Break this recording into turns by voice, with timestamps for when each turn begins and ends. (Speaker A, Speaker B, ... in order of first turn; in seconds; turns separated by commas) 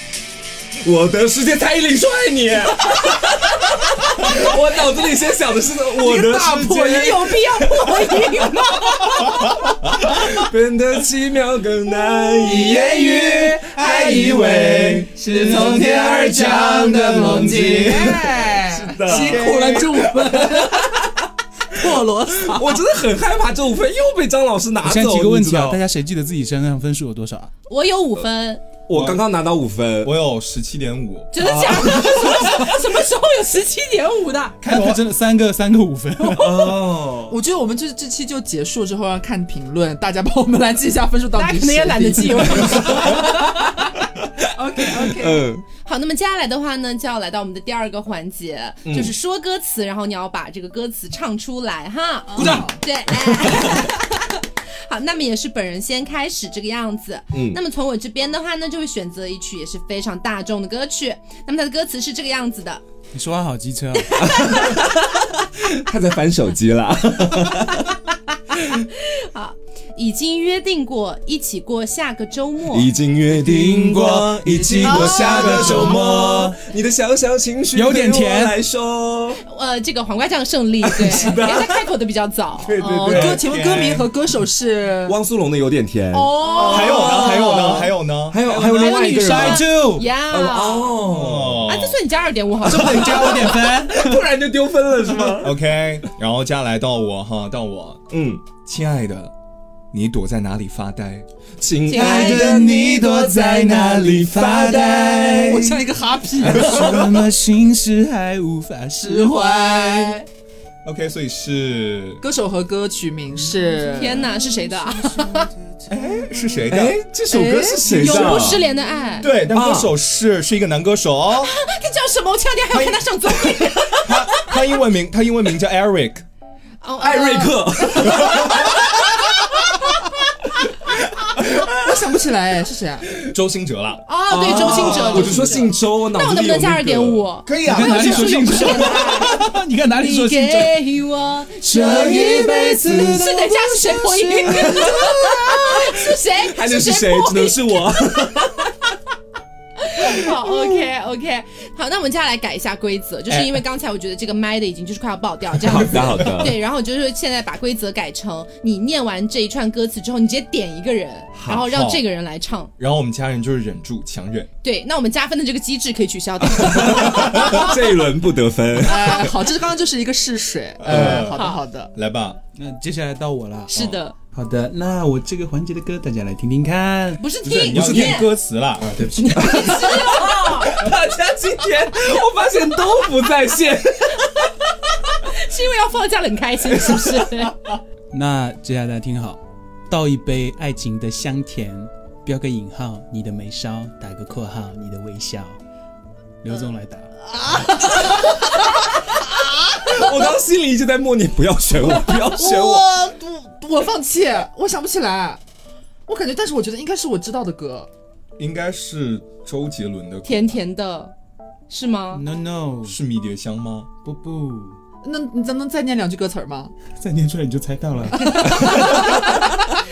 Speaker A: 0.8-8.5, Speaker B: 6.2-6.6, Speaker C: 6.7-9.6, Speaker A: 9.9-13.1, Speaker B: 12.5-14.4, Speaker D: 12.5-18.3, Speaker A: 14.0-14.3, Speaker E: 14.7-16.1, Speaker B: 15.2-21.0, Speaker A: 15.5-19.6, Speaker E: 17.2-17.8, Speaker E: 19.1-20.0, Speaker A: 20.2-21.1, Speaker B: 21.7-22.8, Speaker A: 22.3-25.8, Speaker D: 24.8-27.5, Speaker C: 27.7-28.6, Speaker A: 28.9-30.2, Speaker E: 28.9-29.2, Speaker E: 30.0-31.3, Speaker C: 31.3-34.6, Speaker A: 31.4-32.6, Speaker E: 34.6-35.0, Speaker D: 34.6-36.6, Speaker A: 36.3-37.4, Speaker B: 37.3-43.2, Speaker C: 41.4-43.9, Speaker B: 44.5-45.5, Speaker A: 44.9-45.6, Speaker C: 45.8-62.8, Speaker A: 48.8-49.1, Speaker B: 52.3-52.8, Speaker A: 53.3-53.9, Speaker A: 57.3-57.6, Speaker D: 63.1-64.2, Speaker C: 64.0-64.9, Speaker A: 64.2-68.0, Speaker A: 68.5-68.8, Speaker C: 68.7-72.9, Speaker A: 72.7-79.4, Speaker D: 73.4-76.5, Speaker C: 74.8-76.0, Speaker E: 75.6-76.0, Speaker D: 77.7-78.5, Speaker C: 79.4-82.8, Speaker A: 80.8-81.9, Speaker A: 82.6-83.4, Speaker B: 82.8-85.2, Speaker E: 83.1-84.1, Speaker A: 85.0-91.7, Speaker C: 86.1-87.6, Speaker E: 86.5-88.4, Speaker D: 88.4-90.1, Speaker C: 88.7-91.0, Speaker E: 91.0-92.0, Speaker C: 91.7-93.6, Speaker D: 92.6-94.2, Speaker A: 93.5-95.6, Speaker E: 95.3-99.3, Speaker A: 98.1-98.4, Speaker E: 99.9-101.2, Speaker A: 101.6-105.6, Speaker C: 101.8-102.6, Speaker D: 101.9-105.8, Speaker B: 105.4-106.8, Speaker D: 106.4-110.2, Speaker A: 106.5-107.1, Speaker E: 106.7-107.1, Speaker B: 109.0-110.2, Speaker E: 110.8-112.2, Speaker B: 112.2-114.3, Speaker D: 113.4-116.6, Speaker C: 113.9-115.5, Speaker E: 115.9-117.0, Speaker A: 116.7-118.6, Speaker B: 117.3-117.7, Speaker C: 117.3-119.3, Speaker D: 118.0-118.4, Speaker E: 119.2-121.5, Speaker A: 119.5-120.0, Speaker C: 121.4-124.6, Speaker E: 122.7-126.2, Speaker C: 126.8-129.0, Speaker A: 127.0-129.3, Speaker B: 131.6-133.1, Speaker E: 133.2-135.7, Speaker C: 134.1-147.9, Speaker A: 134.3-137.2, Speaker E: 137.4-138.7, Speaker D: 137.6-140.8, Speaker D: 141.6-145.5, Speaker A: 141.9-143.2, Speaker A: 144.6-148.9, Speaker C: 149.8-162.7, Speaker E: 153.3-153.6, Speaker A: 155.6-156.6, Speaker A: 161.3-161.7, Speaker E: 161.6-162.0, Speaker E: 162.8-164.5, Speaker C: 164.6-167.8, Speaker A: 166.6-169.3, Speaker B: 168.8-171.9, Speaker E: 170.8-171.4, Speaker A: 170.9-171.2, Speaker C: 170.9-171.6, Speaker E: 171.9-172.4, Speaker D: 172.6-177.3, Speaker C: 173.7-174.1, Speaker E: 173.7-174.0, Speaker C: 177.2-178.3, Speaker E: 177.4-179.6, Speaker A: 177.7-178.2, Speaker D: 179.0-179.4, Speaker C: 179.2-180.8, Speaker A: 179.3-184.5, Speaker C: 185.2-187.6, Speaker D: 188.1-195.6, Speaker D: 196.4-197.1, Speaker B: 197.4-198.2, Speaker A: 199.8-202.9, Speaker B: 202.1-205.4, Speaker B: 206.1-207.9, Speaker E: 208.4-210.6, Speaker C: 210.2-211.1, Speaker C: 211.7-212.2, Speaker D: 212.1-212.9, Speaker E: 212.8-213.9, Speaker D: 214.0-214.8, Speaker B: 215.0-216.7, Speaker D: 216.9-218.9, Speaker C: 218.2-219.5